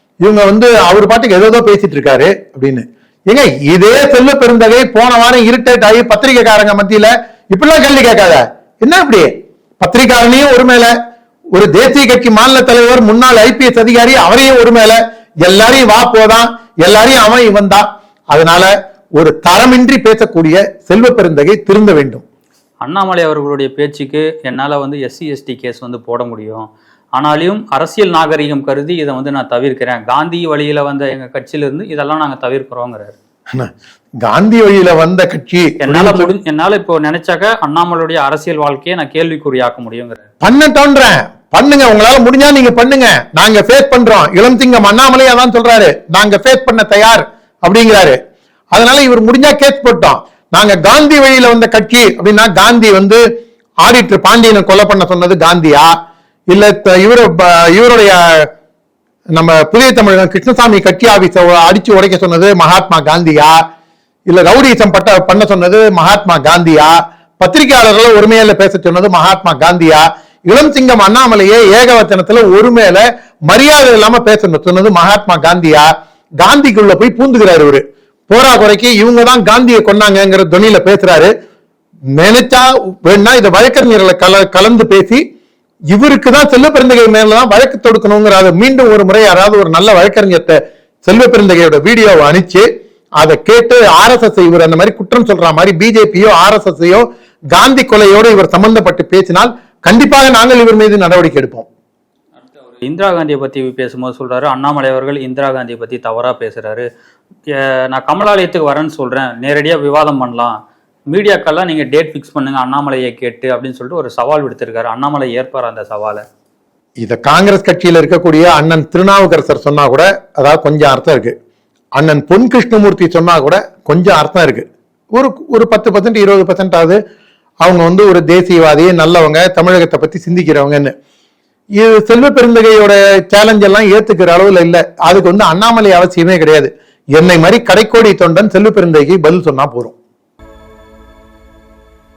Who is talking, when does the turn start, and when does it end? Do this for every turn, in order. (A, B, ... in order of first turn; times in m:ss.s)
0:00.2-0:10.9 A
0:11.5-0:22.2 A
0:22.8-0:33.2 B
0:34.2-0:36.3 A
0:35.8-0:40.2 B
0:40.4-0:48.2 A
0:48.7-0:53.2 A
0:53.8-0:55.9 A
0:56.5-0:58.5 A
0:59.4-1:03.6 A
1:04.3-1:15.9 A
1:16.4-1:21.3 A
1:22.2-1:25.2 A
1:25.9-1:32.7 A
1:33.2-1:41.7 A
1:42.5-1:46.8 B
1:47.5-1:50.5 B
1:51.1-1:56.2 B
1:57.0-2:01.3 A
2:02.0-2:07.0 A
2:07.6-2:10.9 A
2:11.8-2:20.0 A